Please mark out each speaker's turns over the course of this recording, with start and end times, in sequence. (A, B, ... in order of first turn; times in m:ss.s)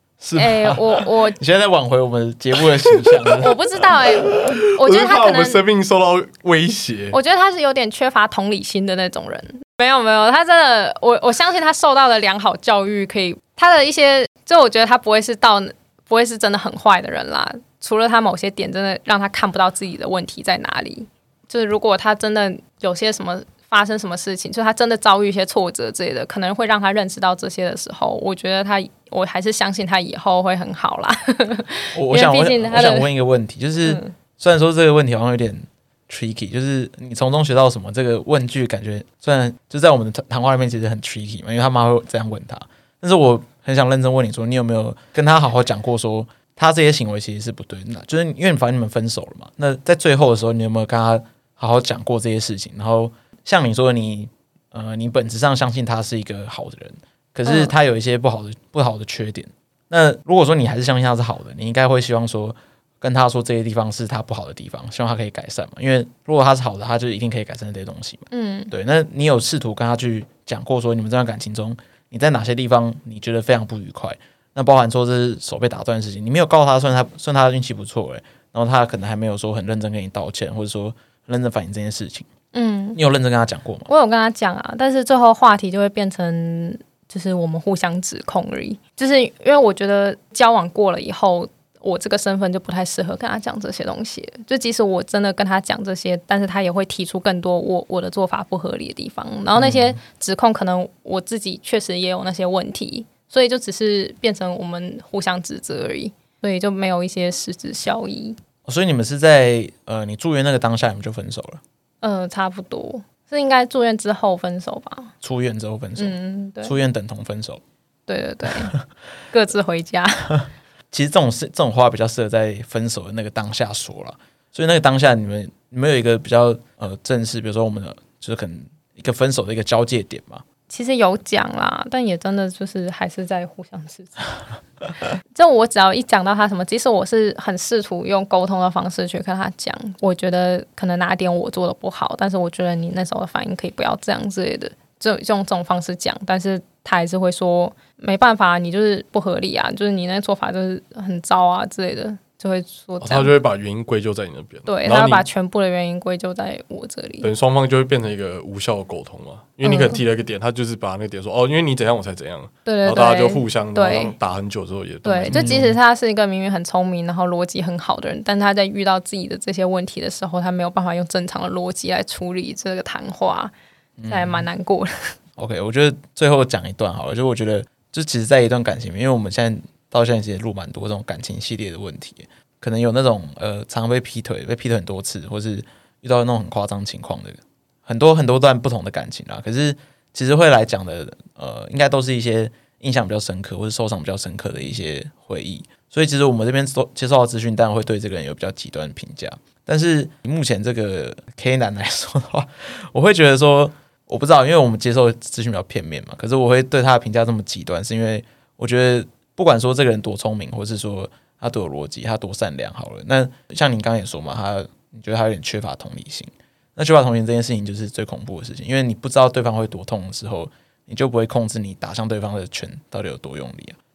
0:00.2-0:03.6 A
0:00.3-0:01.4 B
0:02.8-0:03.2 C
0:03.4-0:05.6 B
0:04.3-0:07.1 C
0:07.1-0:33.1 B
0:31.9-1:22.3 A
0:33.8-0:34.1 B
0:57.4-0:57.7 B
1:08.3-1:08.7 B
1:22.5-1:23.0 B
1:23.0-1:23.9 A
1:23.9-1:48.4 B
1:48.6-1:51.6 A
1:52.0-1:55.1 B
1:55.2-1:57.6 A
1:56.0-1:56.8 B
1:58.1-1:58.7 B
1:59.3-2:00.4 B
2:00.9-2:10.4 A
2:10.7-2:14.4 B
2:15.3-2:33.3 B
2:33.0-2:35.2 C
2:34.7-2:37.3 B
2:37.2-2:45.7 C
2:39.6-2:40.0 B
2:42.6-2:44.1 B
2:45.0-2:53.5 B
2:45.3-2:45.8 A
2:54.0-2:54.4 A
2:54.1-2:55.1 B
2:55.4-3:43.8 A